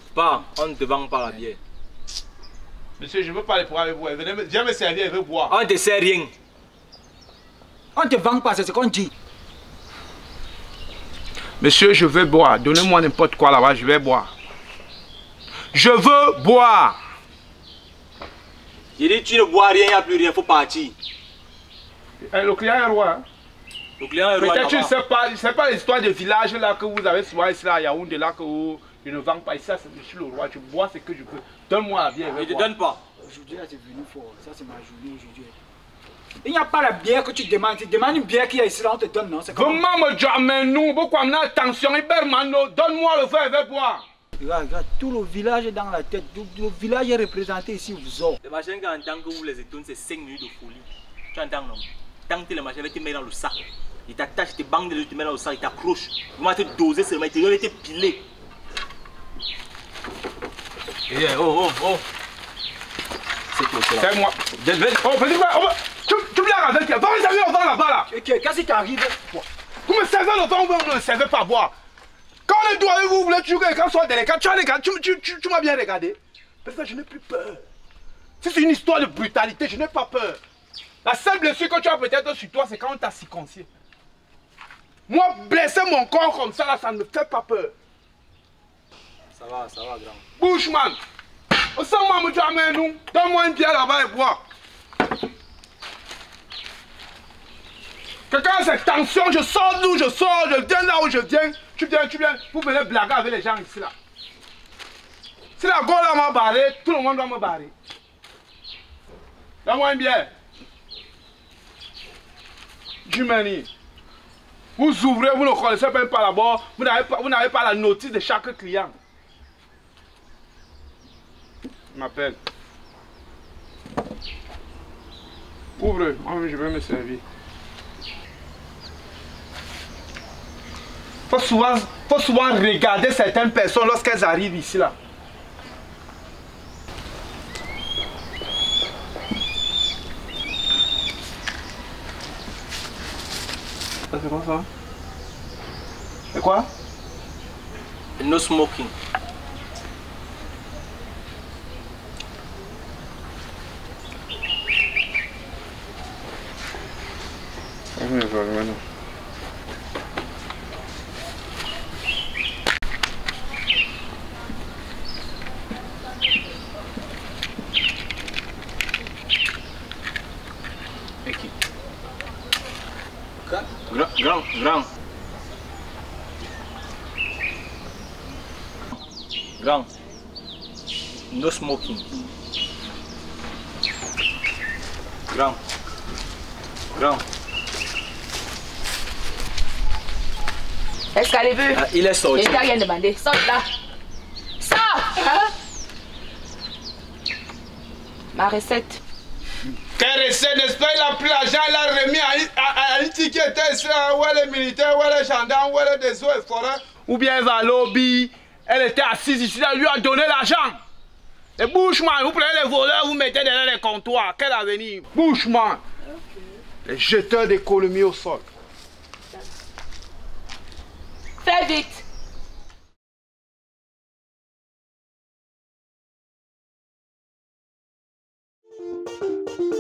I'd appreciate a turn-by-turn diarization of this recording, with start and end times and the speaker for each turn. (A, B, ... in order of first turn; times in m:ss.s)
0:00.1-0:01.6 A
0:03.0-0:05.5 B
0:05.5-0:06.3 A
0:07.9-0:09.1 C
0:11.6-0:14.3 B
0:15.7-0:17.0 B
0:19.0-0:20.9 A
0:22.2-0:23.2 B
0:24.0-0:24.9 A
0:24.4-0:32.7 B
0:32.3-0:33.0 A
0:33.2-0:35.5 C
0:36.4-0:39.8 C
0:39.5-0:44.0 B
0:44.4-0:48.4 C
0:48.4-0:53.6 A
0:54.1-0:58.2 A
1:01.1-1:02.0 A
1:03.5-1:05.0 A
1:04.0-1:04.4 B
1:05.0-1:08.1 B
1:08.1-1:09.4 C
1:09.8-1:11.7 B
1:12.5-1:17.6 B
1:18.4-1:20.4 B
1:21.0-1:23.7 B
1:25.1-1:27.7 B
1:29.3-1:30.2 A
1:30.4-1:31.0 B
1:31.8-1:34.4 B
1:38.3-1:43.9 B
1:45.6-1:47.7 B
1:49.6-1:50.3 B
1:53.0-1:53.7 B
1:54.8-1:59.0 B
2:01.9-2:02.4 B
2:05.8-2:07.2 B
2:11.3-2:14.9 B
2:24.1-2:24.7 B
2:26.3-2:26.7 B
2:28.2-2:28.9 A
2:38.0-2:38.8 B
2:51.2-2:51.5 A
2:53.8-2:54.9 A
2:59.6-2:59.9 A
3:01.3-3:02.1 A
3:05.3-3:05.6 A
3:06.9-3:07.2 A
3:11.1-3:11.8 D
3:11.7-3:12.6 A
3:12.3-3:13.7 D
3:14.6-3:15.5 D
3:18.3-3:19.0 D
3:20.0-3:30.8 B
3:31.6-3:35.8 B
3:36.8-3:38.4 B
3:41.4-3:42.0 D